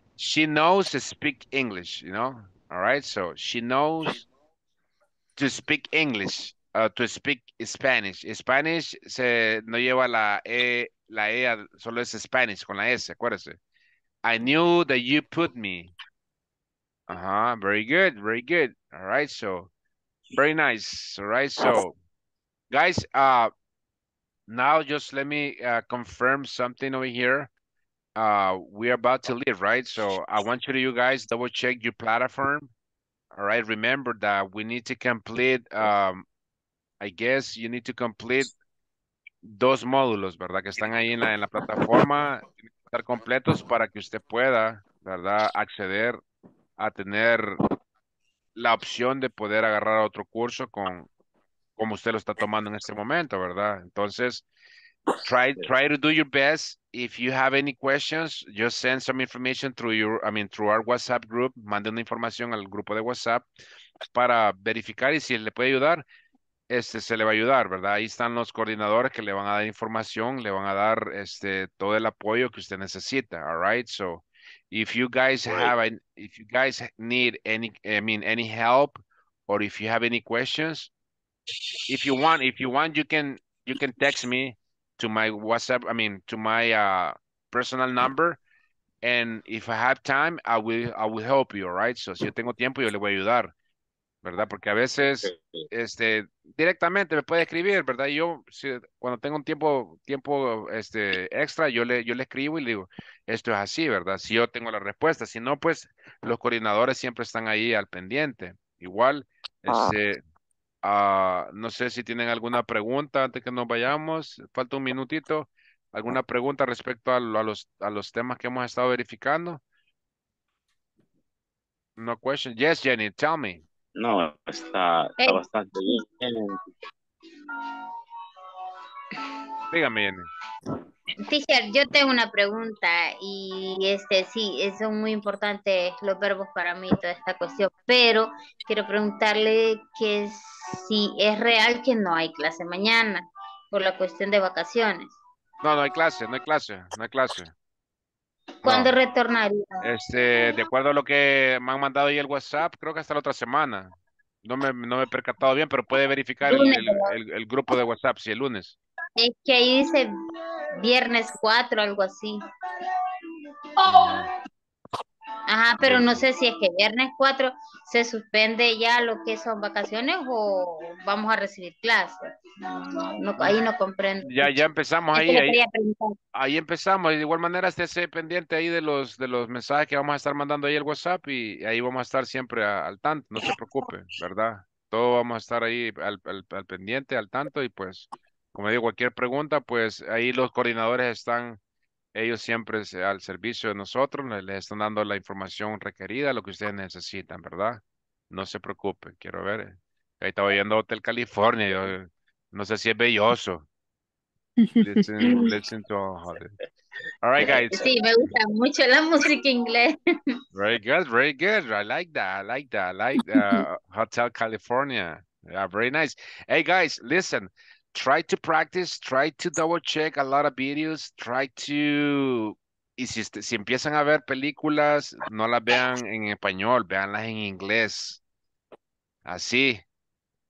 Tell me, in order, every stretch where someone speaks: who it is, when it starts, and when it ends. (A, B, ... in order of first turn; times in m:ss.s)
0:00.2-0:04.2 A
0:05.4-0:13.6 A
0:14.2-0:15.9 A
0:17.1-0:19.7 A
0:20.4-0:21.9 A
0:22.7-0:23.5 A
0:24.5-0:27.5 A
0:28.2-0:32.7 A
0:33.3-0:36.2 A
0:37.0-0:38.5 A
0:39.4-0:46.2 A
0:46.8-0:47.6 A
0:48.6-0:51.1 A
0:51.8-0:54.4 A
0:55.2-1:03.4 A
1:04.1-1:06.0 A
1:06.7-1:20.9 A
1:15.5-1:15.7 B
1:21.9-1:28.4 A
1:29.0-1:33.5 A
1:34.2-1:50.2 A
1:35.2-1:35.6 B
1:50.8-1:59.6 A
2:02.0-2:03.6 A
2:04.0-2:06.6 B
2:09.7-2:10.3 A
2:11.2-2:25.1 C
2:25.6-2:27.5 A
2:28.6-2:29.0 A
2:28.6-2:29.9 C
2:29.8-2:38.8 A
2:36.4-2:37.1 C
2:39.2-2:40.1 C
2:40.8-2:42.4 C
2:43.8-2:44.2 C
2:43.9-2:44.3 A
2:45.5-2:52.2 C
2:45.8-2:46.2 A
2:52.9-2:54.5 C
2:54.2-2:55.6 A
2:55.1-2:56.2 C
2:56.3-3:11.6 A
3:12.1-3:23.6 A
3:24.8-3:26.5 A
3:27.2-3:27.8 A
3:27.4-3:27.8 B
3:27.7-3:30.0 C
3:30.5-3:48.2 A
3:49.2-3:49.8 A